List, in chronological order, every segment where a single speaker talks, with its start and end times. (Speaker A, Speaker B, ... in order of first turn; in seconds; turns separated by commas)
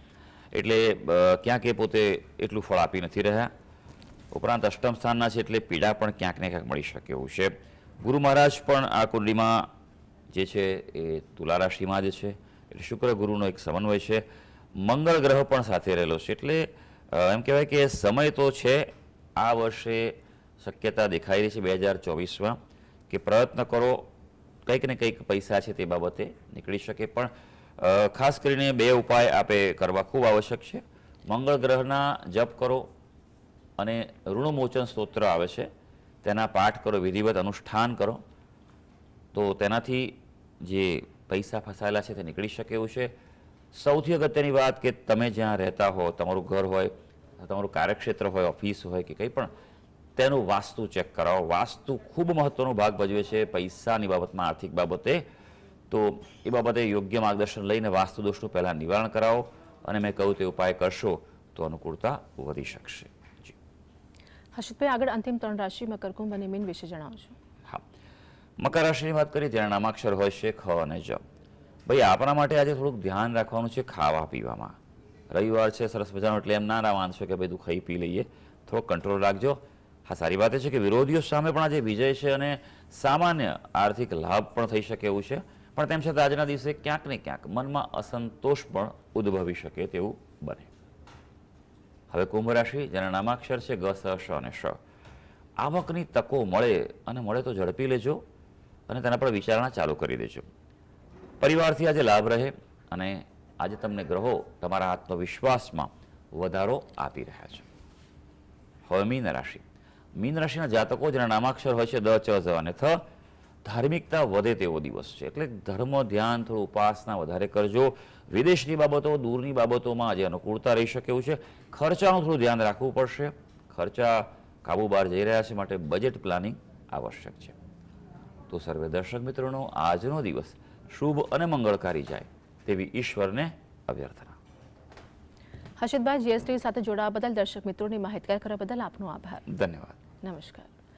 Speaker A: 0.5-3.5, Speaker A: 4.3-9.7, Speaker A: 10.3-14.2, Speaker A: 14.8-22.6, Speaker A: 23.1-24.1, Speaker A: 24.6-32.9, Speaker A: 33.8-35.7, Speaker A: 36.2-38.2, Speaker A: 39.3-43.1, Speaker A: 43.7-49.5, Speaker A: 50.2-55.2, Speaker A: 55.9-63.5, Speaker B: 64.5-67.3, Speaker A: 68.6-71.2, Speaker A: 71.9-74.7, Speaker A: 75.3-90.7, Speaker A: 92.1-94.8, Speaker A: 95.6-98.2, Speaker A: 98.9-100.5, Speaker A: 101.4-107.7, Speaker A: 108.9-109.6, Speaker A: 110.2-113.0, Speaker A: 113.6-127.6, Speaker A: 128.5-134.4, Speaker B: 135.8-139.4, Speaker A: 139.5-140.0, Speaker B: 140.2-140.7